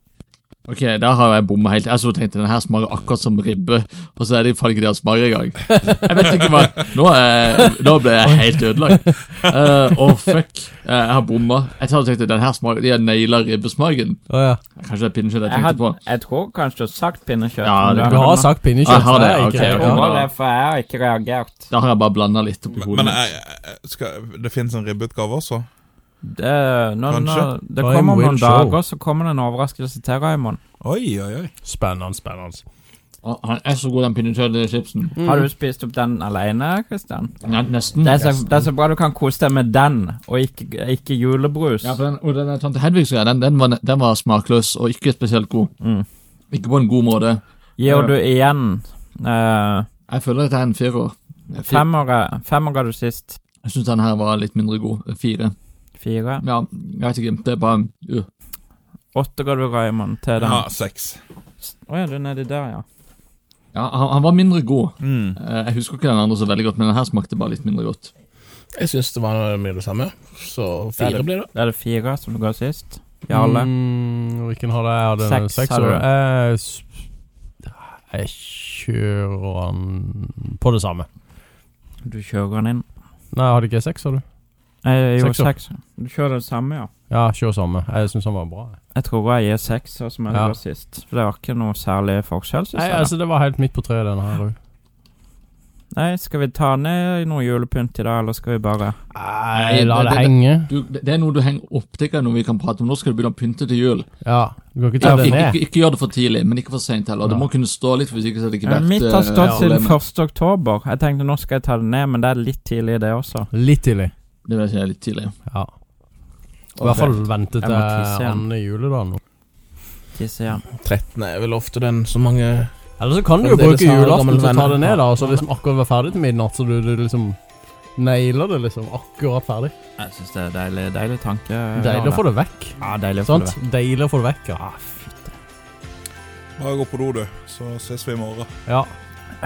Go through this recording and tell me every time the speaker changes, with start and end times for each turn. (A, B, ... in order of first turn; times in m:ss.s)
0:00.7-0:14.2 A
0:05.7-0:06.2 B
0:14.3-0:14.6 B
0:14.8-0:16.0 A
0:15.5-0:21.7 C
0:17.6-0:20.3 A
0:18.0-0:20.0 B
0:21.7-0:23.2 A
0:22.8-0:25.7 D
0:26.2-0:30.6 C
0:27.1-0:27.6 D
0:27.8-0:28.8 B
0:30.8-0:31.5 D
0:31.6-0:32.6 B
0:33.2-0:35.2 A
0:35.2-0:35.5 B
0:35.2-0:37.3 C
0:37.4-0:38.7 A
0:38.0-0:42.0 C
0:41.8-0:45.7 A
0:45.8-0:46.1 C
0:46.5-0:48.1 A
0:47.8-0:49.9 C
0:50.1-0:51.9 A
0:51.6-0:53.4 C
0:53.6-0:55.5 A
0:56.0-0:56.4 C
0:56.4-0:58.3 A
0:59.1-1:00.7 C
1:00.4-1:01.2 D
1:01.6-1:02.8 C
1:03.7-1:08.1 A
1:05.0-1:05.4 D
1:08.7-1:11.5 E
1:11.0-1:13.7 C
1:13.3-1:16.9 B
1:15.2-1:16.0 C
1:17.6-1:21.1 B
1:22.0-1:22.9 C
1:23.3-1:24.2 B
1:24.8-1:26.9 C
1:25.2-1:25.5 B
1:27.1-1:28.8 B
1:28.9-1:33.1 C
1:30.3-1:30.6 B
1:32.7-1:34.6 B
1:35.9-1:39.0 C
1:39.1-1:40.7 B
1:39.5-1:44.1 A
1:44.2-1:45.6 B
1:45.0-1:50.0 A
1:48.7-1:53.5 C
1:49.4-1:49.6 B
1:53.5-1:54.1 B
1:54.4-1:55.3 A
1:56.8-1:59.2 B
1:56.8-1:57.1 A
1:57.6-1:58.4 C
2:00.1-2:00.6 C
2:00.8-2:02.7 E
2:03.0-2:07.4 B
2:03.4-2:05.0 E
2:08.0-2:09.7 B
2:10.0-2:12.2 C
2:11.8-2:15.0 B
2:12.8-2:13.6 C
2:16.6-2:18.5 D
2:18.7-2:18.9 B